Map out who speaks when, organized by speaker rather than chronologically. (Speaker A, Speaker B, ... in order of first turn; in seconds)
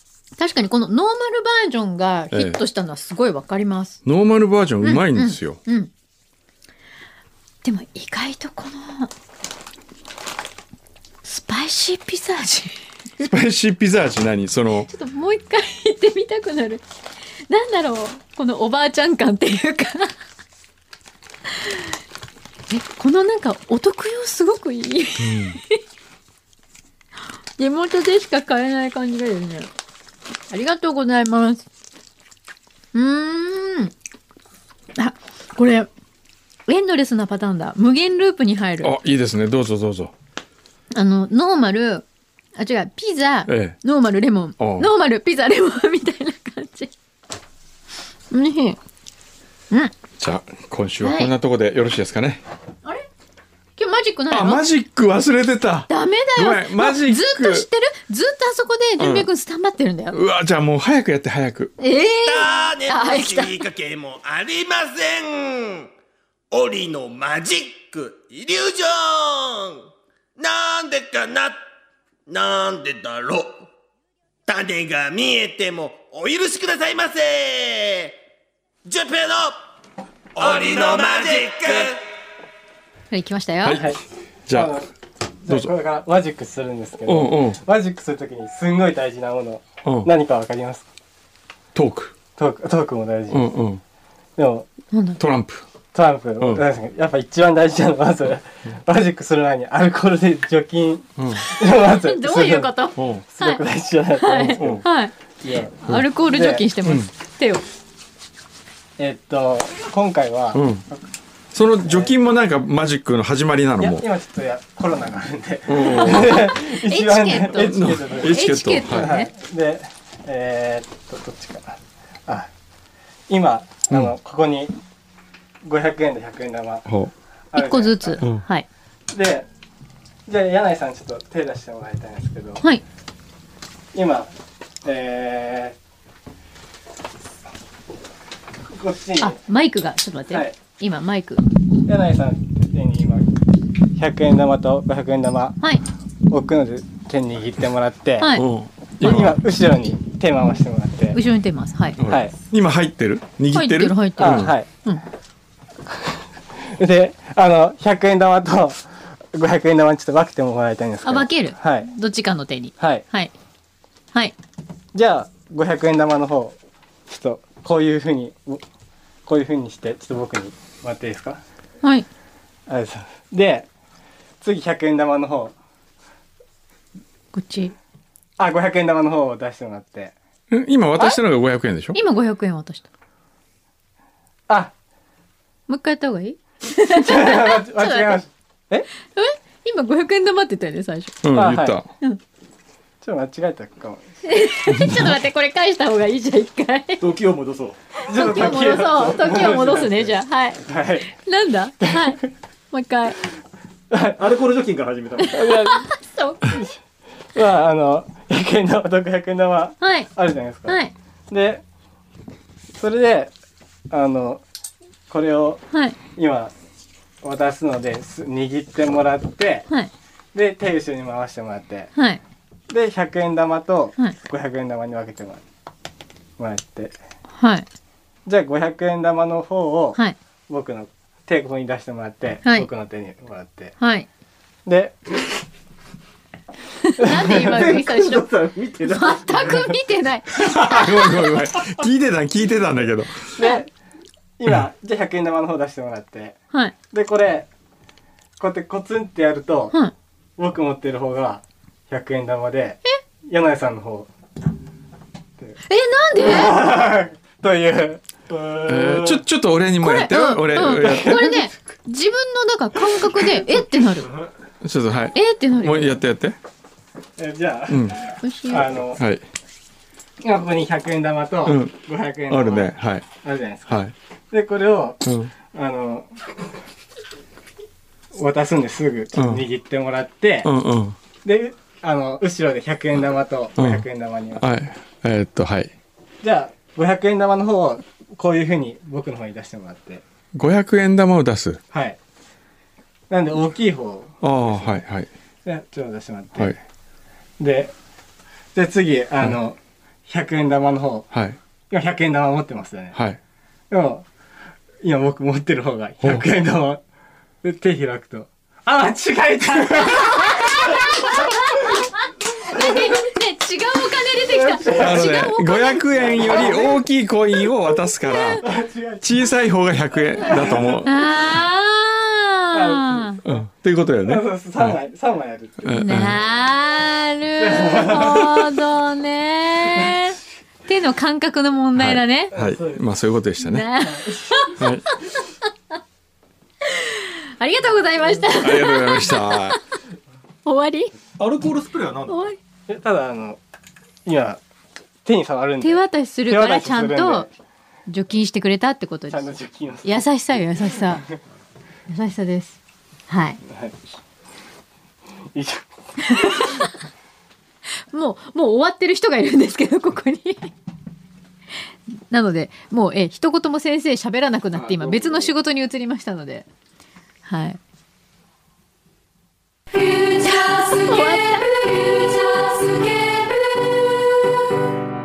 Speaker A: 0.4-4.0, 4.8-5.9, 7.6-9.1, 11.2-13.2, 14.8-16.8, 17.5-20.1, 21.6-21.9, 22.7-25.8, 27.6-29.7, 30.5-31.6, 32.9-33.9, 35.0-35.9, 36.7-38.9, 40.9-42.0, 42.5-46.9, 48.3-48.8, 51.0-51.3, 53.8-54.6, 55.9-60.2, 61.8-63.6, 83.1-83.8, 94.9-95.2, 101.6-103.6, 104.2-105.1, 105.8-107.6, 115.8-119.3, 127.5-128.7, 139.2-141.4, 148.2-148.5, 151.1-152.0, 153.5-155.0, 161.0-163.3, 177.3-177.7, 181.9-182.9, 185.7-188.2, 189.0-191.2, 194.2-197.0, 198.0-203.2, 205.4-206.7, 209.8-210.1, 210.7-210.9, 215.7-216.0, 221.9-222.2, 227.3-227.7, 233.8-234.1, 236.8-238.3, 238.8-241.2, 255.6-256.6, 259.8-264.1, 265.1-266.0, 268.2-268.7, 309.9-316.1, 318.0-318.4, 320.8-323.2, 325.7-332.3, 333.4-335.5, 336.6-339.6, 340.4-340.9, 342.1-342.4, 345.6-347.3, 347.9-349.3, 349.8-351.0, 351.9-353.4, 356.0-356.7, 357.9-360.5, 361.9-366.4, 367.2-367.6, 369.7-374.4
Speaker B: 2.3-2.6, 4.0-5.6, 13.2-14.9, 25.2-25.6, 38.8-40.1, 43.5-43.8, 44.6-44.9, 50.2-52.4, 54.3-57.7, 59.0-59.3, 60.1-61.7, 83.6-84.0, 84.5-84.8, 85.5-85.7, 87.0-87.6, 89.8-90.1, 91.7-92.1, 93.3-93.8, 95.2-95.6, 101.2-101.5, 103.0-103.2, 104.6-104.8, 110.5-110.8, 111.5-114.0, 115.7-116.5, 117.5-119.1, 126.9-127.1, 148.3-149.4, 152.0-154.5, 180.5-182.0, 191.2-191.9, 194.7-195.2, 240.3-243.2, 258.6-261.4, 264.6-266.4, 267.7-268.0, 268.9-269.2, 271.4-271.8, 272.3-273.1, 273.7-273.9, 275.0-275.3, 279.1-279.4, 280.4-281.0, 283.6-285.7, 290.3-291.6, 294.2-295.1, 301.1-301.4, 302.9-303.2, 314.8-318.5, 319.0-321.0, 323.2-324.8, 325.6-326.2, 331.8-333.7, 334.6-334.9, 338.4-339.6
Speaker C: 62.2-65.9, 66.5-71.6, 72.3-73.7, 74.5-78.2, 78.8-79.6, 80.3-82.0
Speaker D: 83.7-84.9, 85.4-90.8, 92.4-93.5, 94.4-94.7, 95.9-102.7, 103.3-104.8, 105.4-106.6, 109.0-110.7, 111.8-112.1, 113.8-122.5, 123.3-124.7, 125.6-126.9, 127.5-128.2, 129.1-129.4, 130.3-132.6, 133.9-134.3, 134.8-135.8, 138.7-139.4, 141.8-143.3, 143.9-145.7, 146.3-148.4, 149.0-151.2, 152.1-152.3, 154.2-154.7, 155.9-161.9, 162.8-163.0, 164.9-166.6, 167.1-168.6, 169.2-171.4, 172.7-173.7, 174.4-175.5, 178.4-180.1, 186.8-188.9, 191.3-191.8, 193.0-194.1, 198.0-201.1, 203.9-204.2, 205.2-206.7, 207.3-210.8, 211.3-211.6, 212.8-213.3, 213.9-214.4, 215.1-216.5, 217.2-219.7, 220.3-221.9, 222.7-225.4, 226.4-226.9, 228.2-233.7, 234.7-235.3, 237.0-239.8, 243.3-243.7, 244.4-246.4, 246.9-247.5, 248.4-249.8, 250.4-254.1, 256.2-259.2, 260.7-261.5, 267.2-269.0, 270.2-276.1, 278.1-280.5, 281.2-284.6, 286.2-290.0, 291.7-292.0, 293.1-294.7, 295.4-296.6, 297.4-297.7, 298.5-301.1, 301.7-303.0, 303.7-304.0, 304.8-306.8, 307.4-311.8, 312.4-313.0, 314.2-315.2, 315.9-316.8, 318.4-319.3, 320.2-320.8, 322.5-323.4, 324.0-326.1, 327.4-328.5, 332.3-332.8, 333.9-334.5, 342.7-343.4, 344.0-344.4, 345.0-347.3, 349.1-350.1, 353.4-353.8, 355.3-355.6, 364.6-365.3
Speaker E: 197.0-199.0, 204.1-205.4, 341.2-342.2